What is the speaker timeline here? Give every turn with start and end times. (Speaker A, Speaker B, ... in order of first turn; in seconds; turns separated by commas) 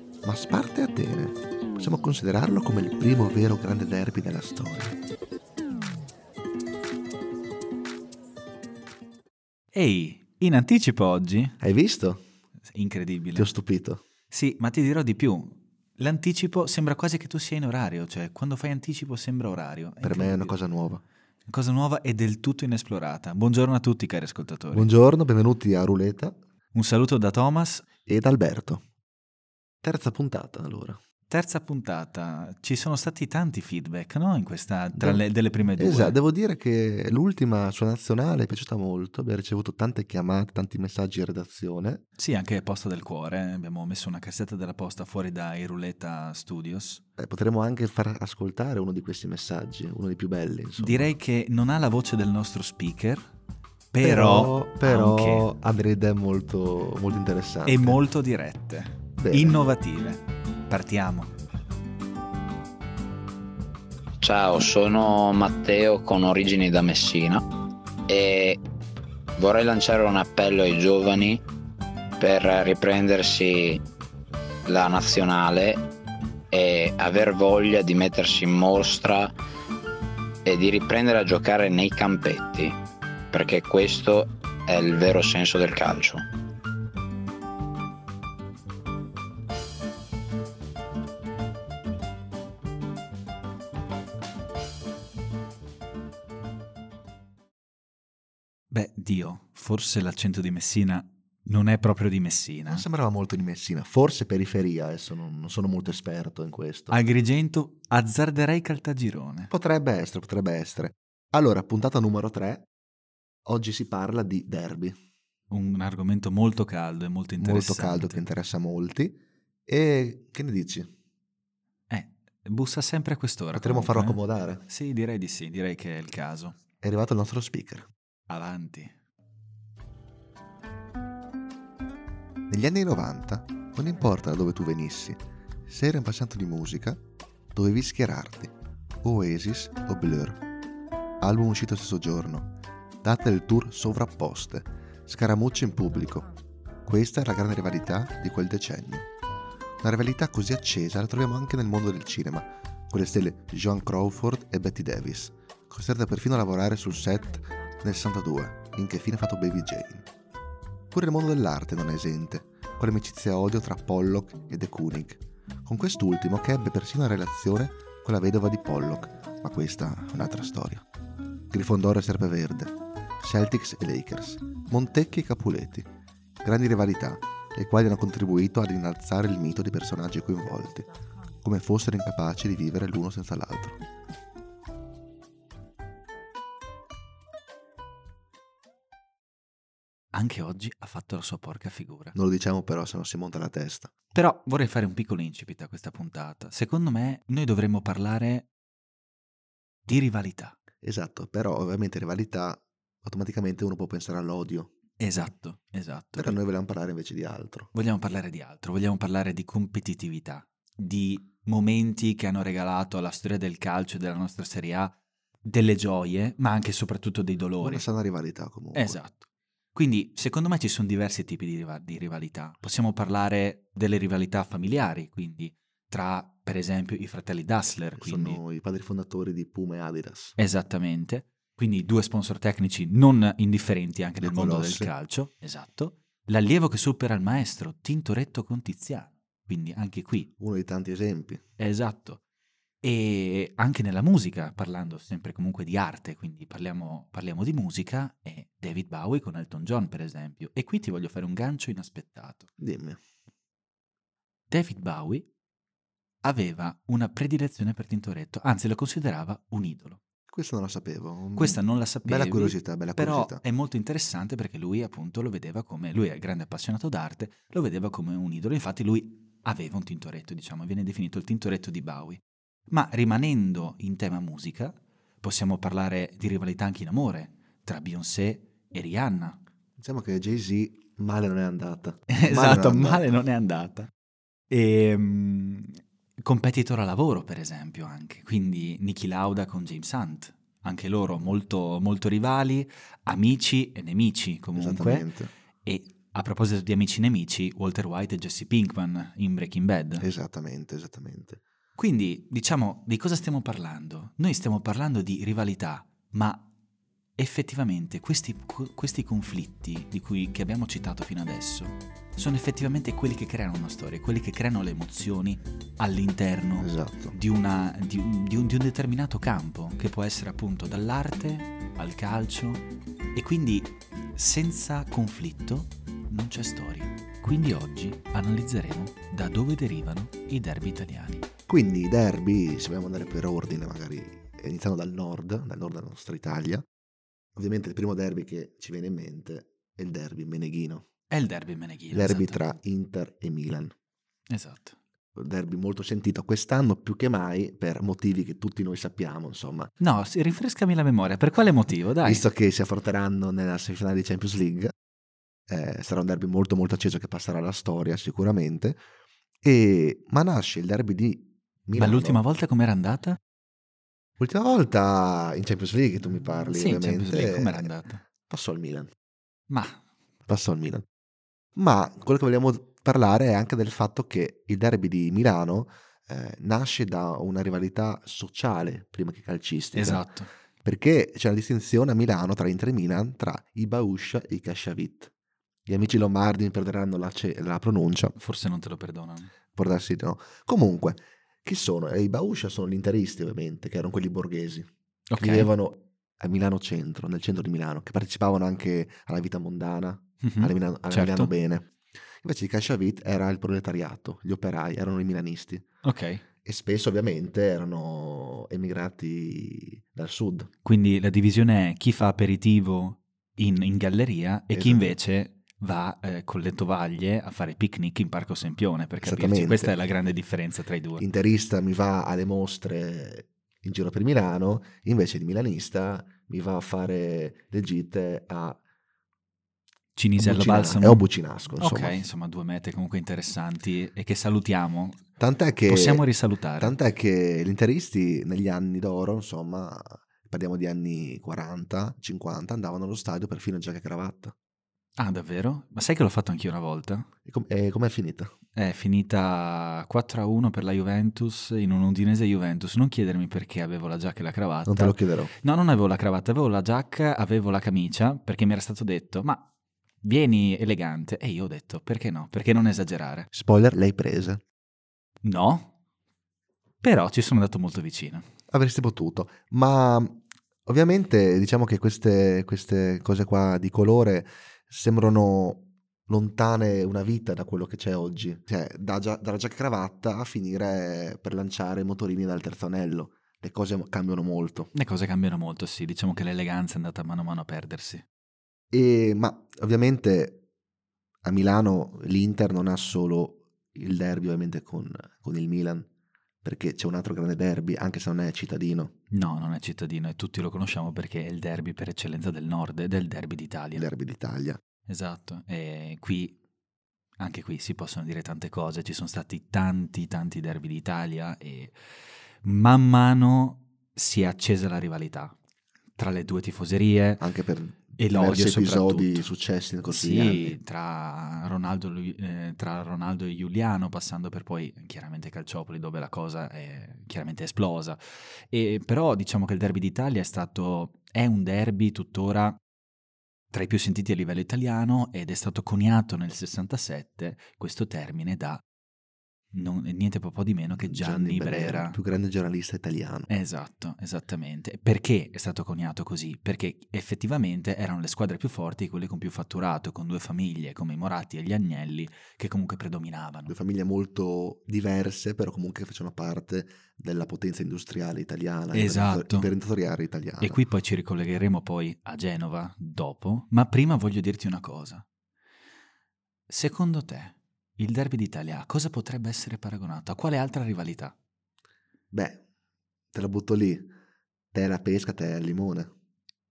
Speaker A: 0.2-5.0, Speaker B: 9.7-11.6, Speaker A: 11.6-12.2, Speaker B: 12.7-13.5, Speaker A: 13.3-14.0, Speaker B: 14.3-20.6, Speaker A: 20.0-21.0, Speaker B: 21.5-24.9, Speaker A: 24.7-26.4, Speaker B: 26.7-27.9, Speaker A: 28.1-28.8, Speaker A: 29.8-31.0, Speaker B: 31.3-36.2, Speaker A: 34.9-35.2, Speaker A: 35.8-42.0, Speaker B: 42.2-47.0, Speaker A: 47.2-51.1, Speaker B: 50.8-53.2, Speaker B: 53.9-55.5, Speaker A: 54.0-58.0, Speaker B: 57.6-61.3, Speaker A: 59.2-59.7, Speaker C: 64.2-67.5, Speaker C: 68.1-68.6, Speaker C: 69.4-71.4, Speaker C: 72.2-73.8, Speaker C: 74.7-75.8, Speaker C: 76.5-79.3, Speaker C: 80.4-82.8, Speaker C: 83.3-86.2, Speaker B: 98.7-102.8, Speaker A: 102.7-107.0, Speaker B: 106.9-109.5, Speaker A: 109.5-112.7, Speaker A: 113.5-115.0, Speaker B: 115.5-118.2, Speaker A: 117.4-120.9, Speaker B: 121.9-126.6, Speaker A: 123.5-124.6, Speaker A: 126.8-127.9, Speaker B: 128.3-128.9, Speaker A: 132.5-137.0, Speaker A: 137.5-140.4, Speaker A: 141.2-142.5, Speaker A: 143.0-146.3, Speaker A: 146.8-149.1, Speaker A: 149.8-160.1, Speaker A: 160.9-170.8, Speaker A: 171.5-175.9, Speaker A: 176.4-180.9, Speaker A: 181.4-183.8, Speaker B: 190.1-192.2, Speaker A: 192.2-193.9, Speaker B: 194.1-198.5, Speaker B: 199.8-200.6, Speaker A: 200.8-204.7, Speaker B: 205.0-206.4, Speaker A: 206.2-207.7, Speaker B: 207.7-217.8, Speaker A: 217.6-219.0, Speaker B: 218.7-228.4, Speaker A: 228.0-230.3, Speaker B: 230.4-240.3, Speaker A: 234.2-234.9, Speaker A: 240.4-241.4, Speaker B: 241.6-242.2, Speaker B: 242.8-252.5, Speaker A: 252.6-253.0, Speaker B: 254.5-255.3, Speaker B: 256.2-260.0, Speaker A: 260.3-263.4, Speaker B: 261.4-279.4, Speaker A: 279.8-283.2, Speaker B: 282.1-283.9, Speaker B: 284.5-295.1, Speaker A: 294.5-295.3, Speaker B: 295.6-300.1, Speaker A: 300.0-301.4, Speaker B: 301.8-306.5, Speaker B: 307.2-322.6, Speaker A: 316.6-317.1, Speaker B: 323.1-331.3, Speaker A: 331.5-336.7, Speaker A: 337.4-340.9, Speaker B: 341.1-342.4, Speaker A: 341.9-343.7, Speaker B: 344.3-344.8, Speaker A: 345.1-349.7, Speaker B: 349.8-352.3, Speaker A: 352.0-354.7, Speaker A: 355.5-358.8, Speaker A: 359.4-362.2, Speaker B: 361.8-363.2, Speaker A: 364.2-368.9, Speaker B: 366.2-368.0, Speaker B: 369.5-369.8, Speaker A: 370.3-370.9, Speaker A: 371.6-380.1, Speaker B: 379.7-380.3, Speaker A: 380.6-385.1, Speaker A: 385.7-388.1, Speaker B: 388.2-389.3, Speaker A: 389.5-405.7, Speaker B: 395.1-395.5, Speaker B: 400.2-401.3, Speaker B: 405.8-406.2, Speaker A: 406.4-410.5, Speaker B: 410.6-421.0, Speaker A: 414.5-415.0, Speaker A: 419.0-419.8, Speaker A: 421.0-428.6, Speaker B: 430.0-431.1, Speaker A: 430.2-432.0, Speaker B: 431.6-435.0, Speaker A: 435.2-436.0, Speaker B: 435.7-436.8, Speaker A: 436.6-444.4, Speaker B: 445.0-447.1, Speaker A: 447.2-448.3, Speaker B: 448.6-459.5, Speaker A: 454.7-455.3, Speaker B: 460.0-463.3, Speaker A: 463.3-464.4, Speaker B: 465.2-465.7, Speaker B: 466.8-468.3, Speaker A: 468.5-484.7, Speaker B: 484.7-488.1, Speaker A: 488.7-490.4, Speaker A: 491.2-495.9, Speaker A: 496.4-498.9, Speaker B: 499.1-503.9, Speaker A: 503.8-504.6, Speaker B: 504.9-506.4, Speaker B: 507.2-511.8, Speaker B: 512.4-515.3, Speaker B: 516.0-517.2, Speaker A: 517.2-520.6, Speaker B: 518.0-519.3, Speaker B: 519.9-532.6, Speaker B: 533.5-538.6, Speaker B: 539.5-542.0, Speaker A: 540.8-543.3, Speaker B: 543.3-553.5, Speaker A: 553.5-560.6, Speaker B: 558.7-559.5, Speaker B: 560.4-565.0, Speaker B: 566.5-571.1, Speaker A: 572.1-572.4, Speaker A: 573.1-573.9, Speaker A: 574.5-575.9